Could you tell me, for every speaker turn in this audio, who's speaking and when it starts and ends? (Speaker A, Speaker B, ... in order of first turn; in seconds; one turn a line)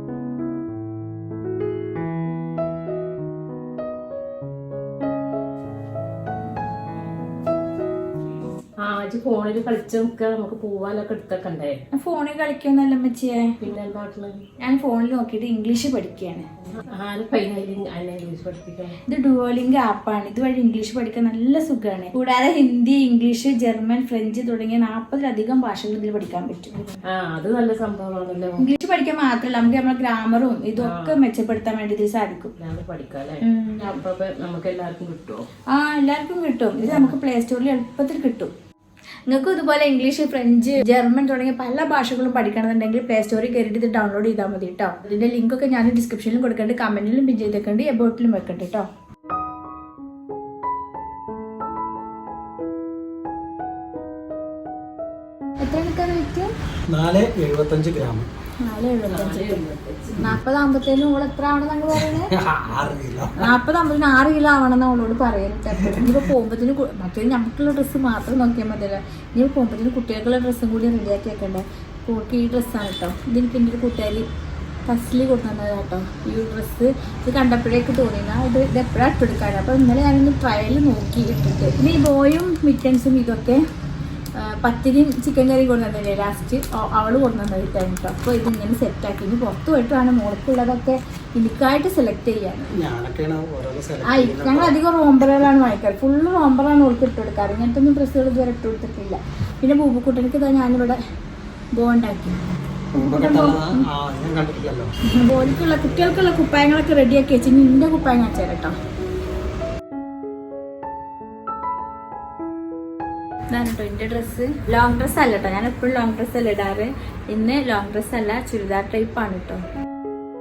Speaker A: 8.8-11.8
Speaker B: 11.9-13.5
Speaker A: 13.6-14.4
Speaker B: 14.6-16.5
Speaker A: 16.8-19.0
Speaker B: 19.1-26.9
Speaker A: 27.1-28.6
Speaker B: 28.6-32.5
Speaker A: 30.8-31.2
Speaker A: 32.6-35.5
Speaker B: 33.4-34.0
Speaker B: 35.7-38.5
Speaker A: 36.8-37.2
Speaker B: 39.3-48.9
Speaker B: 55.6-56.5
Speaker C: 56.9-58.3
Speaker B: 58.6-59.6
Speaker A: 59.0-60.2
Speaker B: 60.1-62.3
Speaker C: 61.9-63.5
Speaker B: 63.4-74.2
Speaker B: 74.9-83.6
Speaker B: 84.4-92.7
Speaker C: 92.7-94.8
Speaker B: 94.0-101.0
Speaker B: 101.8-102.4
Speaker C: 102.9-104.9
Speaker B: 103.0-103.8
Speaker B: 105.1-108.7
Speaker B: 113.5-119.6